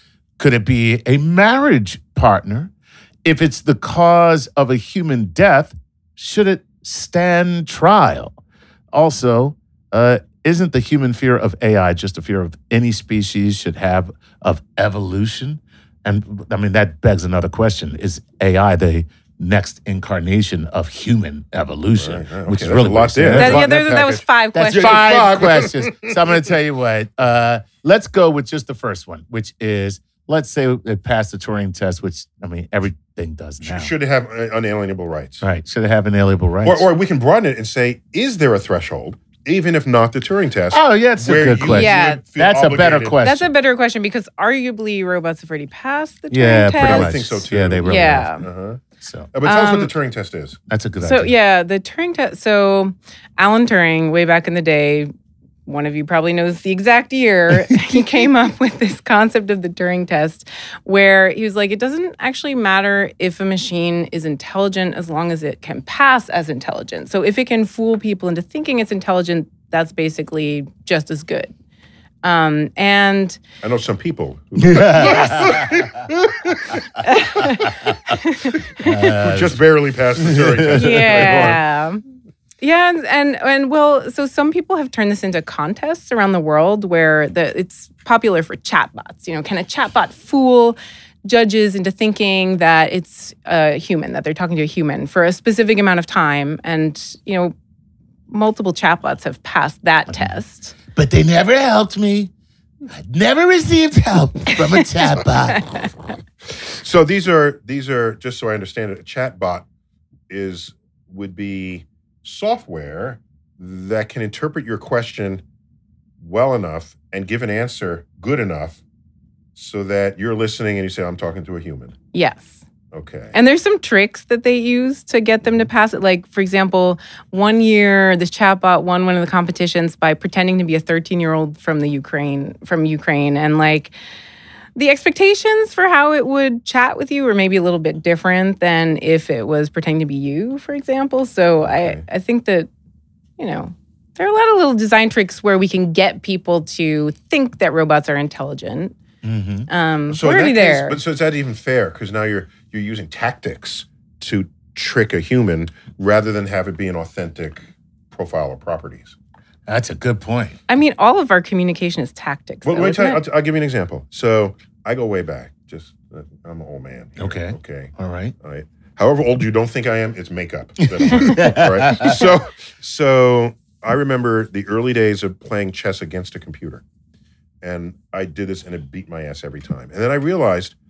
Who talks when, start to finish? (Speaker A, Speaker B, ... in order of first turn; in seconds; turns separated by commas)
Speaker A: 0.4-2.7, Speaker A: 3.2-8.4, Speaker A: 8.9-23.7, Speaker B: 22.0-26.2, Speaker C: 23.3-25.1, Speaker A: 24.5-33.9, Speaker B: 33.6-35.4, Speaker A: 35.4-36.9, Speaker B: 36.6-43.2, Speaker A: 40.7-43.5, Speaker C: 41.6-42.2, Speaker C: 43.2-47.1, Speaker A: 46.3-48.3, Speaker B: 46.8-48.8, Speaker C: 47.8-48.5, Speaker A: 49.0-49.3, Speaker B: 49.3-50.6, Speaker C: 49.4-49.9, Speaker A: 50.7-51.3, Speaker C: 51.0-55.1, Speaker C: 55.6-71.5, Speaker C: 72.2-73.4, Speaker B: 73.6-77.5, Speaker A: 74.6-76.1, Speaker C: 75.0-75.6, Speaker C: 77.0-79.2, Speaker A: 77.7-78.0, Speaker A: 78.8-79.7, Speaker B: 79.2-81.6, Speaker A: 80.2-81.6, Speaker C: 80.8-82.0, Speaker C: 82.6-97.5, Speaker C: 98.3-100.7, Speaker A: 100.9-102.3, Speaker A: 102.9-105.8, Speaker C: 105.5-105.9, Speaker B: 106.6-109.7, Speaker B: 110.3-115.4, Speaker B: 116.2-118.8, Speaker B: 119.5-121.9, Speaker C: 122.1-122.6, Speaker B: 122.9-123.3, Speaker C: 123.3-133.9, Speaker C: 134.8-142.7, Speaker B: 141.6-142.0, Speaker C: 143.4-148.9, Speaker A: 149.2-149.7, Speaker C: 149.7-151.0, Speaker B: 150.1-159.2, Speaker A: 159.7-160.6, Speaker C: 160.7-163.2, Speaker B: 162.6-176.8, Speaker A: 167.2-168.3, Speaker A: 170.8-172.3, Speaker B: 177.6-180.7